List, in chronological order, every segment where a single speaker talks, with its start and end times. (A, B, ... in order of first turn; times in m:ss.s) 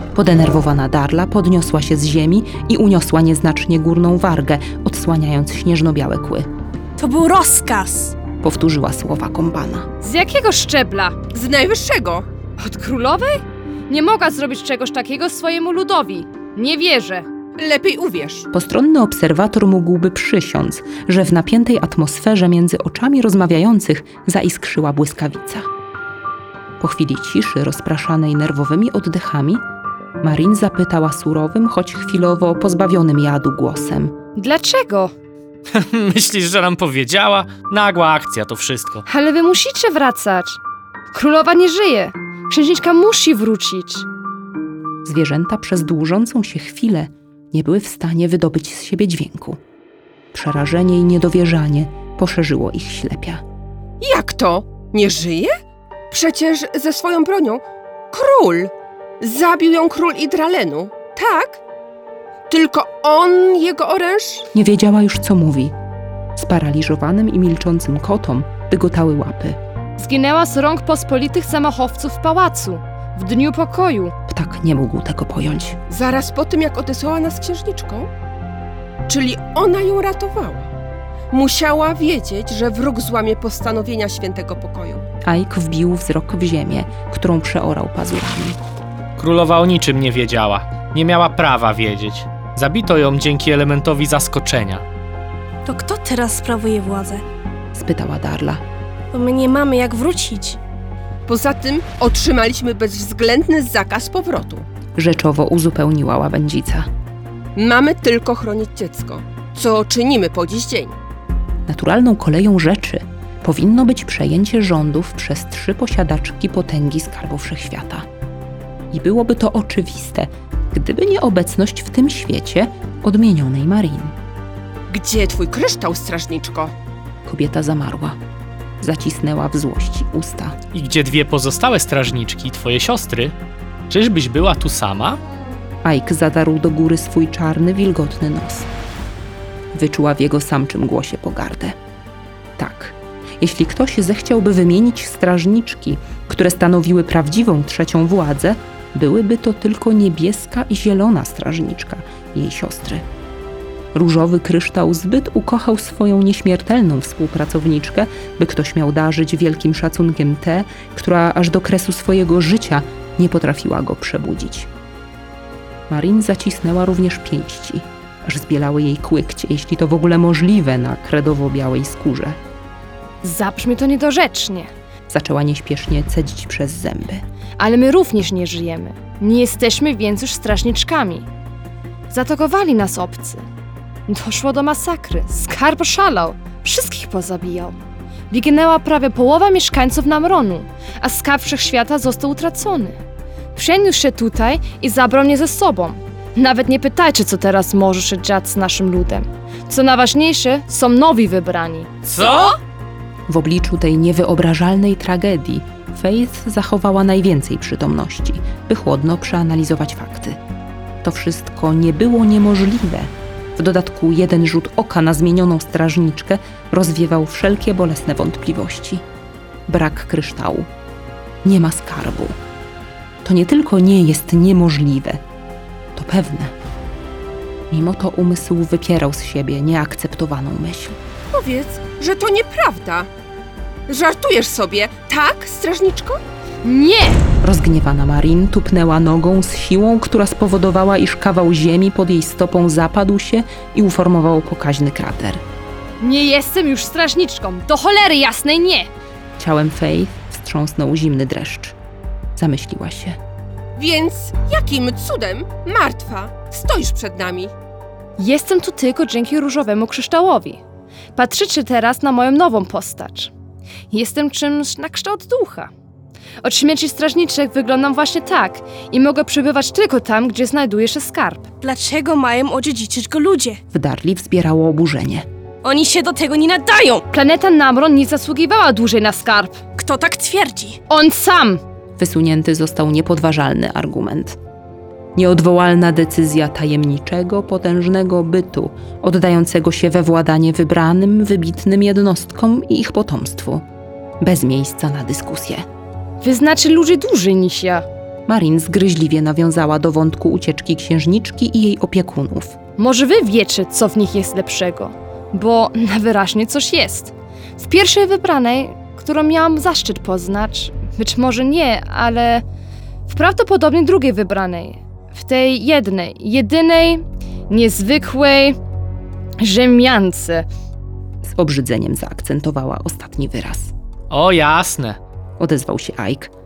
0:00.1-0:06.5 A
0:07.0-0:08.2 B
0:08.4-0:09.9 A
0:10.0-0:11.2 C
0:11.3-0:12.3 D
0:12.6-0:17.3 C
0:17.6-0:18.5 D
0:18.5-0:25.7 A
0:26.8-0:29.6 A
0:30.2-0:34.2 A
0:34.4-0:35.1 C
0:35.7-0:39.0 E
0:39.1-0:40.6 C
0:41.1-0:44.1 C
0:45.0-0:49.6 A
0:50.3-0:53.4 A
0:54.0-0:55.5 D
0:56.1-1:01.6 D
1:02.5-1:04.5 D
1:04.5-1:05.8 A
1:06.4-1:09.6 A
1:10.0-1:14.1 C
1:14.3-1:15.8 A
1:15.9-1:18.1 D
1:19.1-1:20.7 D
1:21.3-1:25.1 D
1:25.2-1:28.6 A
1:29.2-1:34.8 E
1:35.6-1:37.2 B
1:37.7-1:38.6 A
1:39.1-1:40.6 B
1:41.3-1:44.7 D
1:45.0-1:46.9 A
1:47.6-1:51.0 D
1:51.7-1:58.1 A
1:58.9-2:04.1 A
2:04.9-2:06.7 D
2:07.3-2:08.2 A
2:08.8-2:10.6 A
2:10.7-2:13.4 E
2:13.9-2:15.2 E
2:15.8-2:18.7 A
2:19.7-2:21.8 A
2:22.6-2:33.0 A
2:33.9-2:44.7 A
2:45.9-2:52.4 A
2:53.2-2:54.7 C
2:55.1-2:57.2 A
2:57.6-3:01.3 C
3:02.1-3:03.5 C
3:04.1-3:07.8 C
3:08.3-3:13.0 C
3:13.6-3:22.1 C
3:22.1-3:22.5 E
3:23.3-3:30.4 A
3:31.0-3:39.0 A
3:39.7-3:40.7 A
3:41.4-3:42.4 A
3:43.2-3:45.2 A
3:46.0-3:46.5 A
3:47.7-3:51.0 A
3:51.3-3:53.1 D
3:53.9-3:56.2 D
3:56.6-3:57.2 C
3:57.4-4:05.4 A
4:06.0-4:08.9 C
4:09.4-4:11.8 A
4:12.4-4:13.2 A
4:13.8-4:17.5 D
4:18.2-4:20.6 C
4:21.2-4:23.3 C
4:23.9-4:25.7 C
4:26.4-4:31.5 C
4:31.6-4:33.6 B
4:33.7-4:35.3 A
4:35.6-4:37.1 B
4:37.1-4:39.6 C
4:39.8-4:40.8 B
4:40.9-4:41.6 C
4:42.0-4:44.4 A
4:45.2-4:53.6 A
4:54.2-4:55.7 A
4:56.2-4:57.9 C
4:58.3-5:02.6 A
5:02.8-5:12.4 C
5:13.1-5:18.6 C
5:19.4-5:20.5 C
5:21.3-5:23.7 A
5:24.1-5:25.0 E
5:25.4-5:26.3 A